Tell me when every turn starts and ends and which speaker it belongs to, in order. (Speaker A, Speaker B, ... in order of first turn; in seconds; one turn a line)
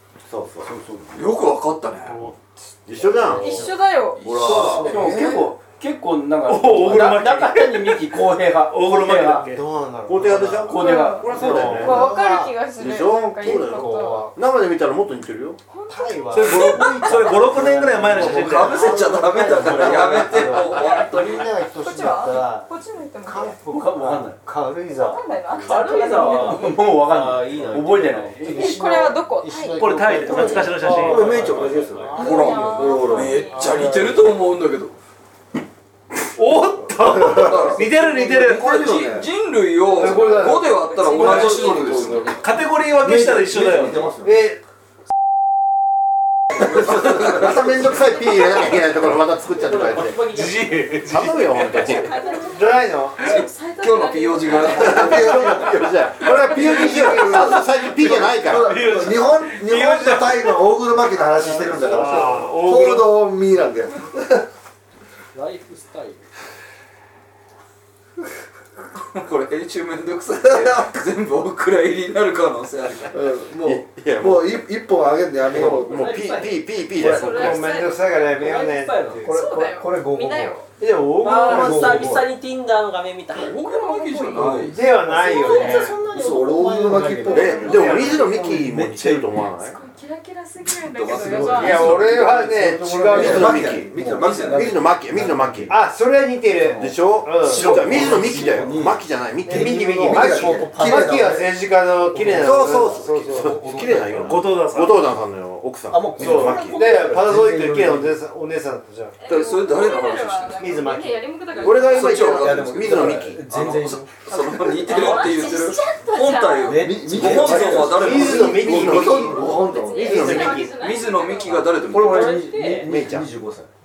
Speaker A: 0.2-1.0
Speaker B: 0.6-1.0
Speaker C: 1.1-2.2
Speaker D: 2.0-3.8
Speaker A: 2.9-3.6
Speaker E: 3.3-4.4
Speaker C: 4.2-5.0
Speaker A: 4.2-5.5
Speaker B: 4.4-9.5
Speaker D: 4.8-5.3
Speaker F: 6.4-9.6
Speaker D: 9.4-14.3
Speaker A: 10.1-12.1
Speaker B: 10.6-11.7
Speaker E: 10.7-14.3
Speaker A: 12.8-15.6
Speaker E: 15.7-17.5
Speaker D: 15.9-22.7
Speaker F: 16.3-18.9
Speaker C: 18.1-21.5
Speaker G: 18.8-20.4
Speaker E: 20.4-23.6
Speaker D: 23.2-26.1
Speaker B: 23.7-24.4
Speaker E: 24.9-26.9
Speaker H: 25.6-28.8
Speaker B: 26.1-28.7
Speaker D: 27.5-34.3
Speaker E: 28.4-30.6
Speaker F: 29.7-31.5
Speaker G: 30.2-33.4
Speaker H: 30.9-32.3
Speaker E: 32.1-33.9
Speaker C: 32.2-35.0
Speaker F: 36.3-38.9
Speaker G: 37.0-39.3
Speaker C: 37.2-42.4
Speaker E: 39.9-42.5
Speaker D: 40.0-40.8
Speaker F: 41.3-41.5
Speaker G: 41.5-42.2
Speaker F: 42.4-44.1
Speaker G: 42.9-44.5
Speaker D: 44.2-44.6
Speaker G: 46.6-48.0
Speaker A: 47.2-50.2
Speaker H: 49.6-50.8
Speaker F: 50.2-51.9
Speaker A: 51.0-52.2
Speaker E: 51.6-57.2
Speaker D: 52.5-53.2
Speaker C: 53.2-55.6
Speaker G: 54.8-55.8
Speaker A: 54.8-58.8
Speaker G: 56.5-64.5
Speaker F: 58.3-60.6
Speaker F: 61.4-63.2
Speaker D: 61.8-62.5
Speaker H: 65.3-66.2
Speaker C: 69.0-73.2
Speaker G: 70.4-70.9
Speaker G: 73.1-76.1
Speaker A: 73.6-74.6
Speaker A: 75.5-77.7
Speaker H: 75.6-76.7
Speaker E: 76.9-78.6
Speaker D: 77.0-82.3
Speaker H: 78.3-79.2
Speaker E: 79.2-80.7
Speaker H: 81.2-83.6
Speaker G: 81.6-81.9
Speaker C: 83.3-84.8
Speaker E: 83.4-84.7
Speaker D: 84.5-86.0
Speaker B: 85.1-89.3
Speaker H: 85.1-87.5
Speaker E: 85.4-85.9
Speaker G: 86.1-88.3
Speaker A: 87.3-89.8
Speaker D: 87.5-88.3
Speaker E: 87.6-88.1
Speaker E: 89.4-92.1
Speaker C: 90.7-92.4
Speaker B: 91.2-91.7
Speaker D: 91.5-93.7
Speaker G: 93.0-94.9
Speaker A: 93.0-95.8
Speaker C: 94.0-94.9
Speaker B: 95.1-95.7
Speaker D: 95.7-98.2
Speaker B: 96.6-101.4
Speaker A: 96.8-100.1
Speaker G: 97.9-98.7
Speaker D: 99.5-104.4
Speaker G: 99.6-101.6
Speaker B: 102.1-102.7
Speaker A: 102.2-106.9
Speaker F: 103.9-105.2
Speaker B: 105.9-108.2
Speaker D: 106.2-109.2
Speaker E: 109.2-112.4
Speaker C: 109.2-110.8
Speaker D: 110.6-111.4
Speaker C: 111.5-118.8
Speaker A: 111.6-113.4
Speaker G: 112.0-112.7
Speaker B: 112.5-114.2
Speaker E: 114.7-117.1
Speaker B: 116.7-117.7
Speaker G: 116.7-120.6
Speaker A: 117.1-120.6
Speaker D: 117.8-120.8
Speaker E: 119.4-122.9
Speaker C: 120.5-122.5
Speaker B: 121.9-123.7
Speaker A: 122.8-123.3